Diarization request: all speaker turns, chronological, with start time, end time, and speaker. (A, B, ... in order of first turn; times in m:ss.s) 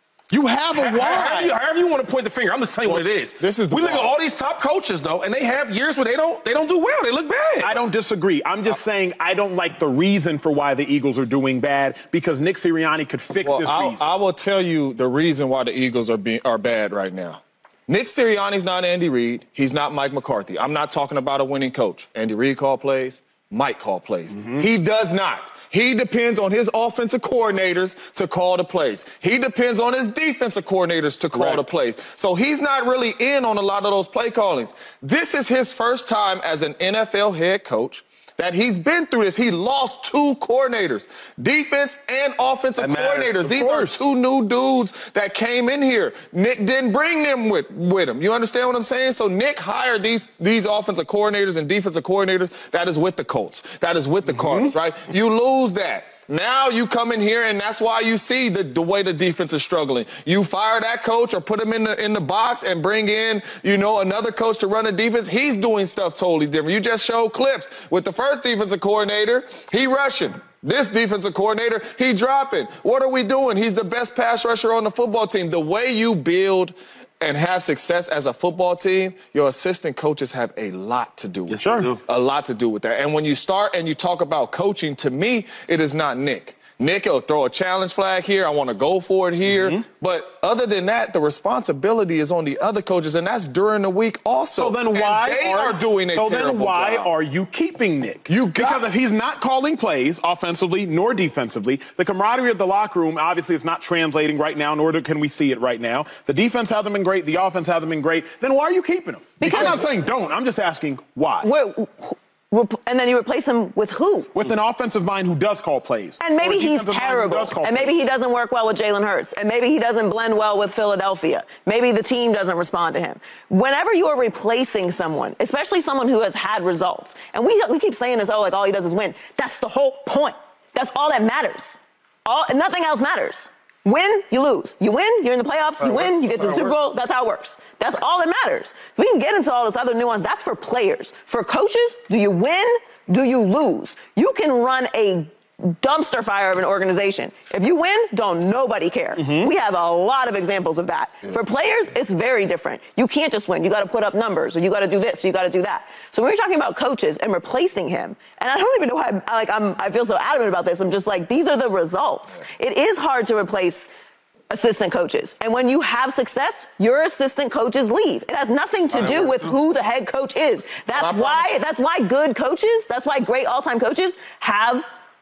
0:00.3-0:01.6 A
0:00.7-0:07.8 B
0:02.8-0:04.1 C
0:07.6-0:14.0 A
0:13.4-1:37.1 C
0:24.3-0:24.6 A
0:31.3-0:31.6 A
0:42.8-0:43.4 B
0:43.3-0:44.0 A
0:54.3-0:54.7 A
1:21.5-1:22.0 B
1:21.6-1:21.9 A
1:29.5-1:29.8 A
1:34.6-1:51.5 A
1:38.3-1:38.8 C
1:49.4-1:49.8 D
1:51.4-1:54.3 D
1:54.3-1:57.9 A
1:56.2-2:43.9 D
2:15.8-2:16.8 B
2:29.2-2:29.5 A
2:44.5-2:54.8 D
2:48.8-2:49.6 B
2:50.9-2:51.5 C